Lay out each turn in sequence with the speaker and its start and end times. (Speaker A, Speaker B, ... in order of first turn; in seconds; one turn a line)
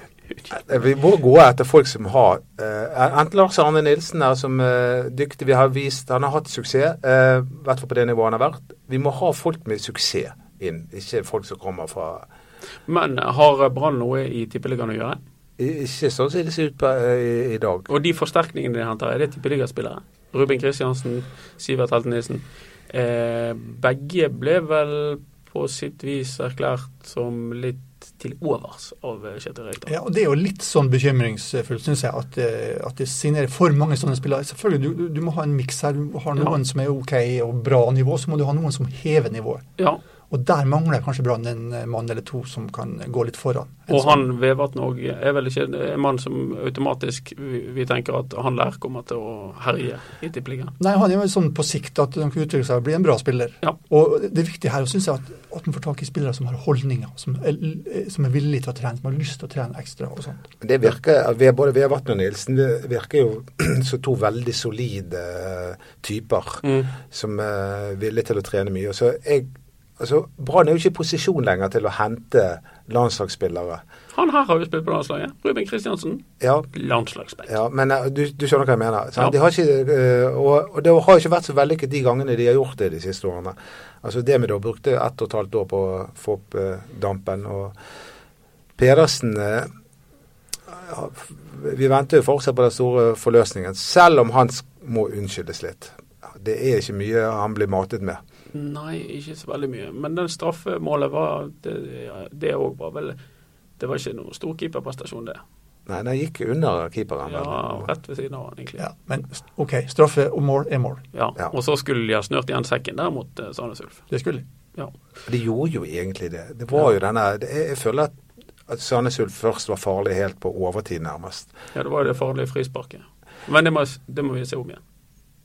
Speaker A: 0.5-12.3
Speaker B: 12.9-15.2
Speaker A: 15.6-17.9
Speaker B: 17.9-29.9
Speaker C: 29.9-39.6
Speaker C: 40.3-44.2
Speaker B: 43.9-50.7
Speaker C: 50.8-60.5
Speaker A: 60.6-73.8
Speaker B: 66.6-66.9
Speaker B: 74.1-77.5
Speaker A: 76.4-76.7
Speaker A: 77.5-87.7
Speaker A: 88.8-89.7
Speaker A: 90.7-98.2
Speaker B: 98.5-103.2
Speaker B: 103.8-105.4
Speaker A: 105.9-107.9
Speaker B: 107.2-108.8
Speaker C: 108.8-111.0
Speaker B: 111.1-114.0
Speaker C: 114.1-114.4
Speaker A: 115.3-121.5
Speaker B: 121.7-124.8